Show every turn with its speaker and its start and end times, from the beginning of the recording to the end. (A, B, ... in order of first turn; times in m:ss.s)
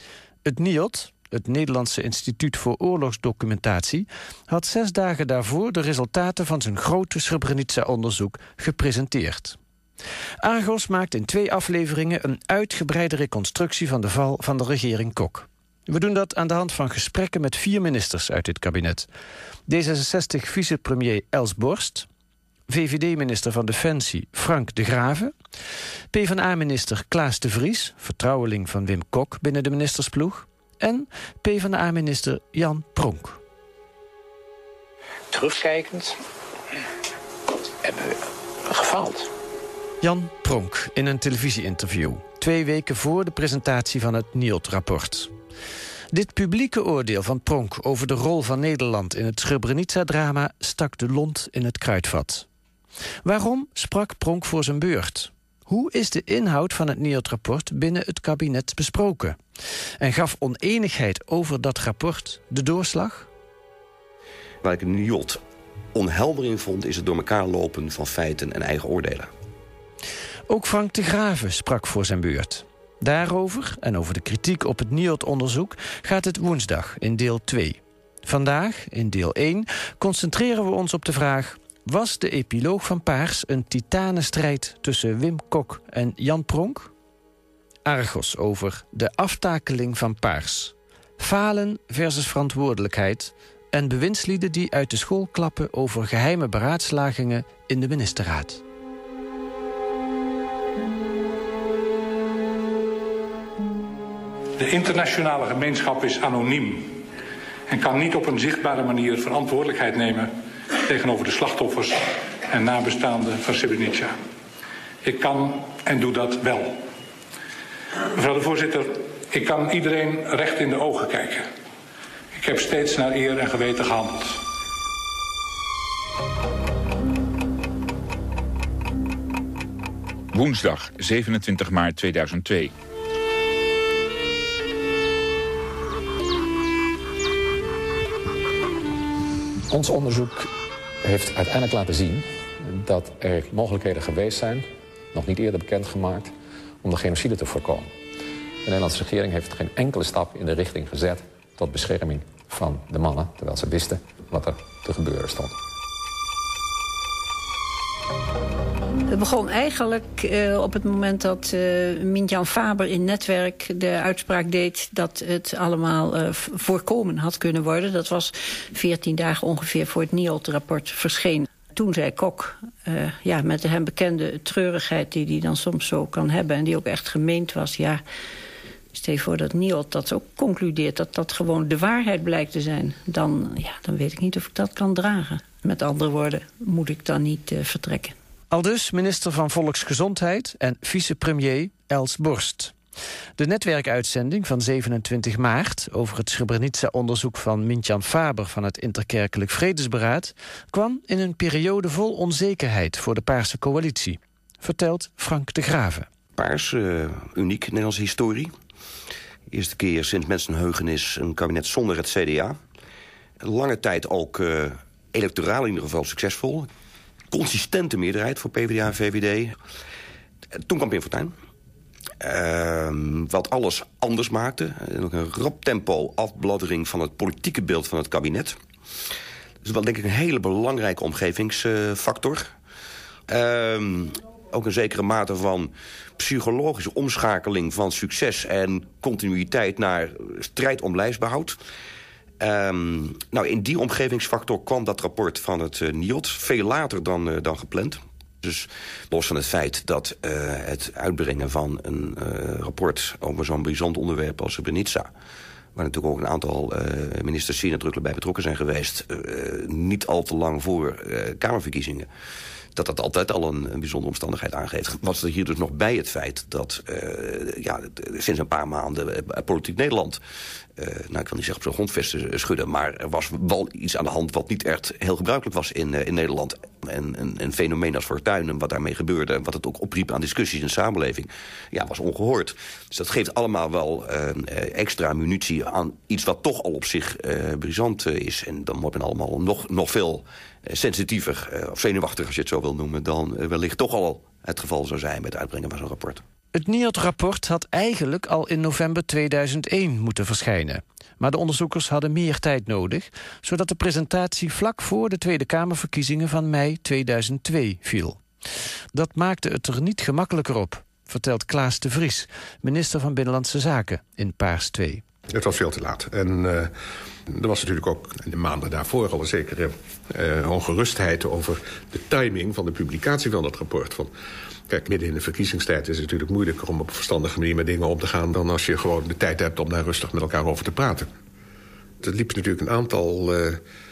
0:00.4-0:09.6 A
0:10.4-0:19.1 A
0:19.7-0:22.1 A
0:22.7-0:25.3 A
0:26.1-0:33.4 A
0:35.3-0:36.1 B
0:37.8-0:39.3 B
0:40.0-0:45.3 A
0:46.1-0:52.4 A
0:53.2-0:59.4 A
1:00.0-1:03.3 A
1:04.6-1:05.4 C
1:05.9-1:09.3 C
1:10.5-1:26.9 A
1:27.8-1:38.6 A
1:44.6-1:47.0 D
1:47.7-1:54.2 D
1:55.0-1:56.8 D
1:58.1-2:01.5 D
2:02.3-2:04.4 D
2:10.3-2:12.7 E
2:19.7-2:20.5 F
2:21.0-2:28.0 F
2:28.6-2:35.6 F
2:39.0-2:58.0 G
2:58.9-3:08.1 G
3:08.5-3:12.7 A
3:13.4-3:26.1 A
3:26.4-3:28.5 C
3:29.5-3:32.6 C
3:33.4-3:36.7 C
3:37.3-3:39.6 C
3:40.6-3:41.3 C
3:42.2-3:48.6 C
3:49.6-3:52.5 C
3:53.3-4:01.6 C
4:02.4-4:15.1 C
4:15.7-4:22.1 C
4:22.7-4:30.2 C
4:30.8-4:56.2 C
4:56.5-5:08.2 A
5:08.9-5:15.0 A
5:15.3-5:16.7 H
5:17.3-5:24.1 H
5:24.7-5:31.1 H
5:32.0-5:33.6 H